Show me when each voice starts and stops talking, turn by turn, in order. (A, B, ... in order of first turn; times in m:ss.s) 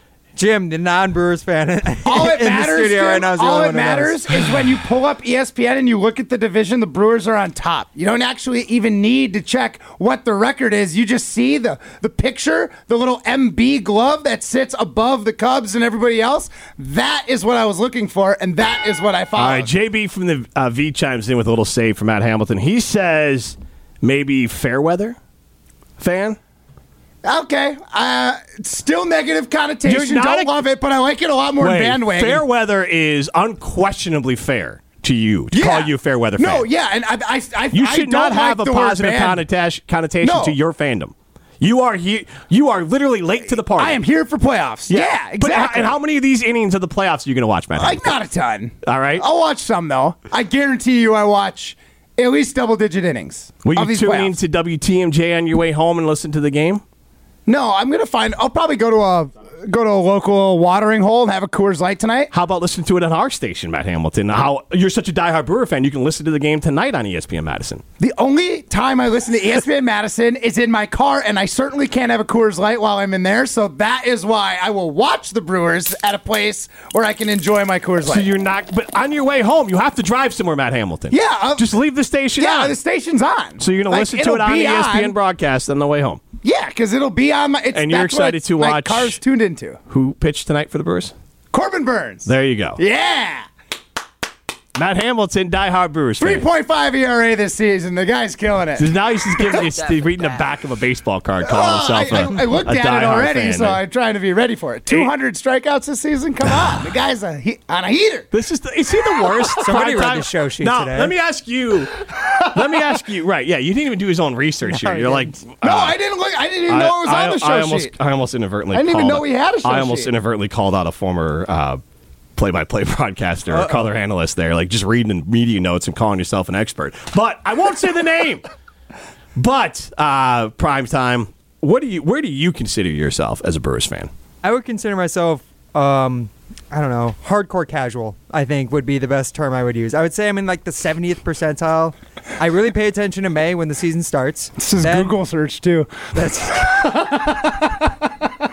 0:00.4-0:04.4 A
0:02.0-0:19.7 B
0:19.4-0:25.2 C
0:26.0-0:26.4 C
0:27.2-0:32.4 B
0:29.8-0:30.5 C
0:31.6-0:36.7 C
0:35.5-0:39.4 B
0:37.7-0:44.0 C
0:40.2-0:40.5 B
0:43.7-0:45.9 B
0:44.9-0:48.1 C
0:47.8-0:54.3 B
0:48.8-0:49.2 C
0:53.6-0:56.8 C
0:57.5-1:02.3 B
1:02.3-1:07.8 C
1:08.0-1:18.3 B
1:18.1-1:22.7 C
1:21.1-1:21.7 B
1:22.4-1:25.1 B
1:23.6-1:26.2 C
1:26.4-1:29.8 B
1:27.7-1:29.2 C
1:29.9-1:31.1 C
1:31.5-1:33.4 B
1:32.2-1:32.8 C
1:34.8-1:36.4 C
1:36.2-1:38.9 B
1:38.8-1:43.8 C
1:41.4-1:48.3 B
1:48.3-1:56.0 C
1:49.2-1:49.5 B
1:49.6-1:51.1 A
1:54.7-1:55.3 A
1:55.6-1:57.9 B
1:56.7-2:01.8 C
1:58.7-2:00.1 B
2:02.4-2:08.4 C
2:03.5-2:03.9 A
2:09.4-2:14.1 C
2:14.4-2:25.2 A
2:24.6-2:27.5 B
2:26.1-2:27.1 A